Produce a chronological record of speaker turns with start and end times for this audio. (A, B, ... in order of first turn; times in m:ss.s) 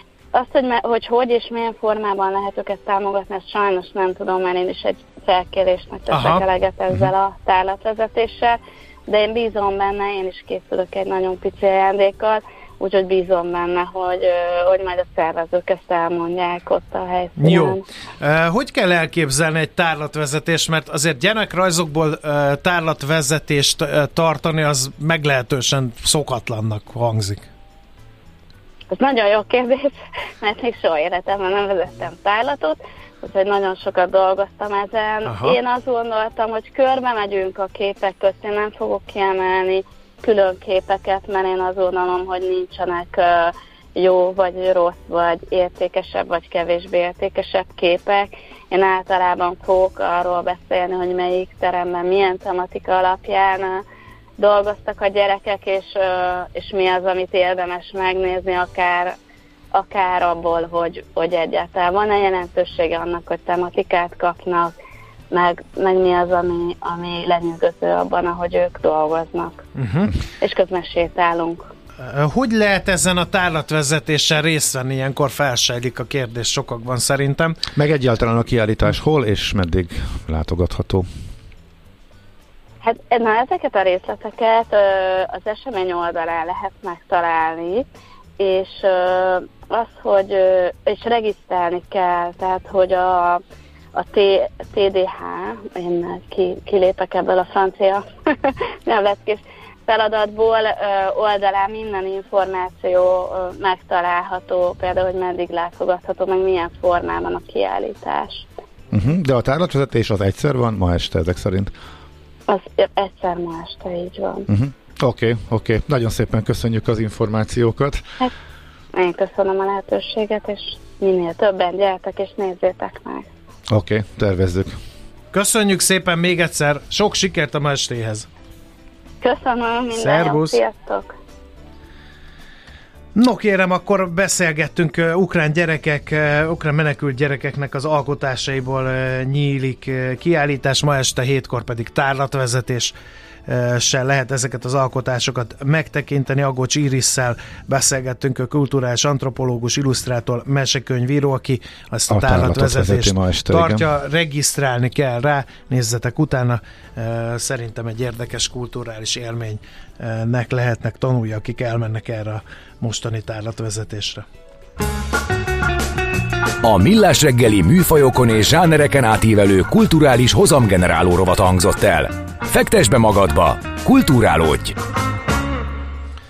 0:00.3-0:17.8 A
0:06.1-0:06.4 B
0:17.4-0:27.4 B
0:28.9-0:53.8 A
0:35.3-0:35.6 B
0:54.4-0:59.1 A
0:59.7-1:04.7 A
1:05.3-1:09.6 A
1:09.8-1:10.1 B
1:10.4-1:11.7 A
1:12.0-1:17.6 B
1:17.7-1:21.1 C
1:22.8-1:27.8 A
1:28.4-1:33.4 A
1:34.0-1:48.5 A
1:48.9-1:51.7 C
1:52.5-1:54.5 A
1:54.5-1:58.0 C
1:59.0-2:03.2 A
2:03.7-2:04.8 C
2:05.3-2:08.3 B
2:09.2-2:11.1 A
2:10.0-2:10.6 B
2:13.1-2:22.9 B
2:23.5-2:44.2 B
2:32.1-2:33.9 C
2:46.6-2:54.8 D